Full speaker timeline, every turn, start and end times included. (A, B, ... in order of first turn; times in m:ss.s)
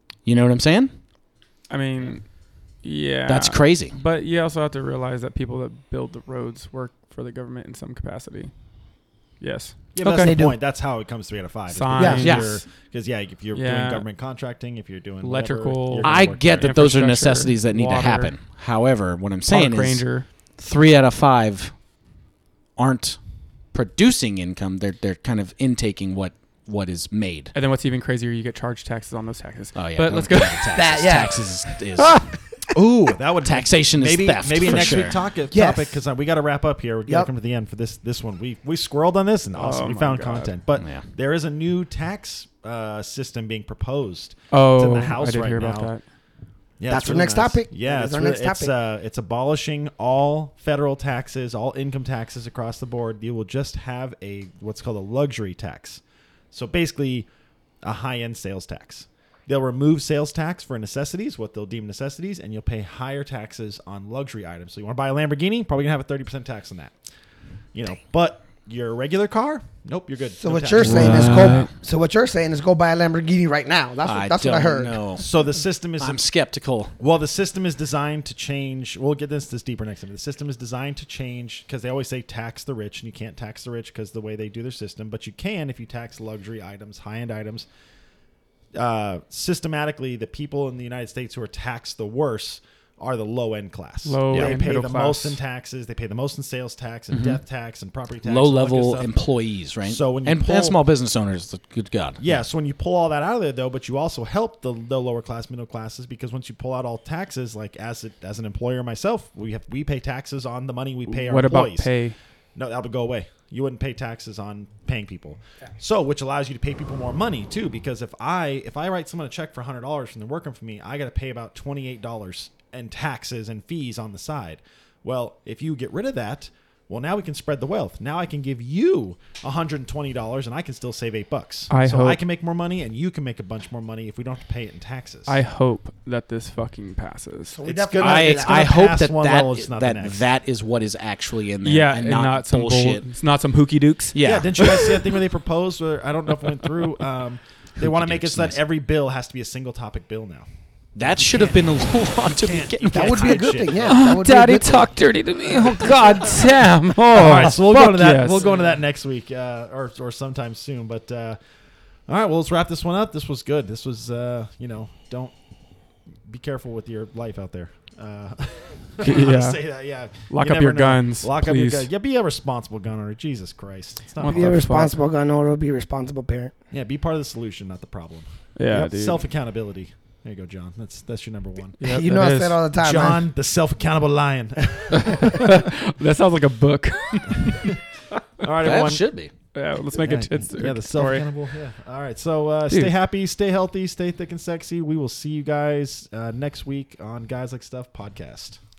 0:00.2-0:00.9 A
0:01.7-0:02.2 B
0:02.8-0:08.5 B
0:03.3-0:04.0 A
0:09.4-0:10.3 B
0:09.9-0:16.7 C
0:10.0-0:10.6 D
0:11.7-0:12.6 B
0:11.9-0:12.3 D
0:12.2-0:12.6 A
0:13.5-0:14.0 B
0:15.2-0:18.3 B
0:16.0-0:20.0 A
0:19.5-0:20.2 B
0:20.6-0:21.7 A
0:22.8-0:23.2 A
0:23.7-0:27.5 A
0:27.5-0:30.8 B
0:29.7-0:32.3 A
0:30.7-0:31.5 D
0:32.7-0:45.9 C
0:33.4-0:35.2 A
0:34.7-0:35.0 D
0:35.5-0:36.0 D
0:39.5-0:40.5 B
0:40.8-0:41.1 A
0:44.5-0:46.0 B
0:46.8-0:56.0 C
0:46.9-0:48.7 D
0:47.0-0:47.5 B
0:56.5-0:57.3 C
0:57.8-1:06.9 C
1:07.7-1:11.6 C
1:10.4-1:15.0 D
1:10.8-1:11.7 A
1:10.8-1:11.6 B
1:14.0-1:15.2 A
1:15.2-1:16.2 C
1:16.0-1:16.9 A
1:17.0-1:27.7 C
1:28.7-1:39.1 C
1:34.0-1:35.4 B
1:34.3-1:34.6 A
1:37.1-1:37.4 A
1:38.2-1:42.4 A
1:39.8-1:40.8 C
1:42.2-1:51.9 C
1:51.1-1:52.2 B
1:52.5-2:15.3 C
2:11.7-2:12.2 B
2:15.3-2:17.6 B
2:17.5-2:18.8 D
2:17.6-2:20.2 C
2:18.0-2:23.0 A
2:21.6-2:24.2 B
2:24.1-2:25.0 A
2:24.2-2:30.5 C
2:27.8-2:28.6 A
2:31.0-2:33.5 A
2:31.0-2:31.6 C
2:32.3-2:34.0 C
2:32.9-2:34.9 D
2:33.9-2:38.7 B
2:37.1-2:41.4 C
2:42.1-2:45.4 C
2:46.2-2:54.6 C
2:49.0-2:51.9 B
2:54.2-2:55.0 B
2:54.2-2:56.5 D
2:56.7-3:01.8 C
2:58.6-2:59.2 B
3:01.8-3:02.6 B
3:01.8-3:03.2 D
3:02.8-3:05.7 C
3:05.0-3:07.8 B
3:07.5-3:07.8 C
3:08.4-3:09.0 C
3:08.6-3:09.3 A
3:09.5-3:11.3 B
3:09.9-3:18.6 C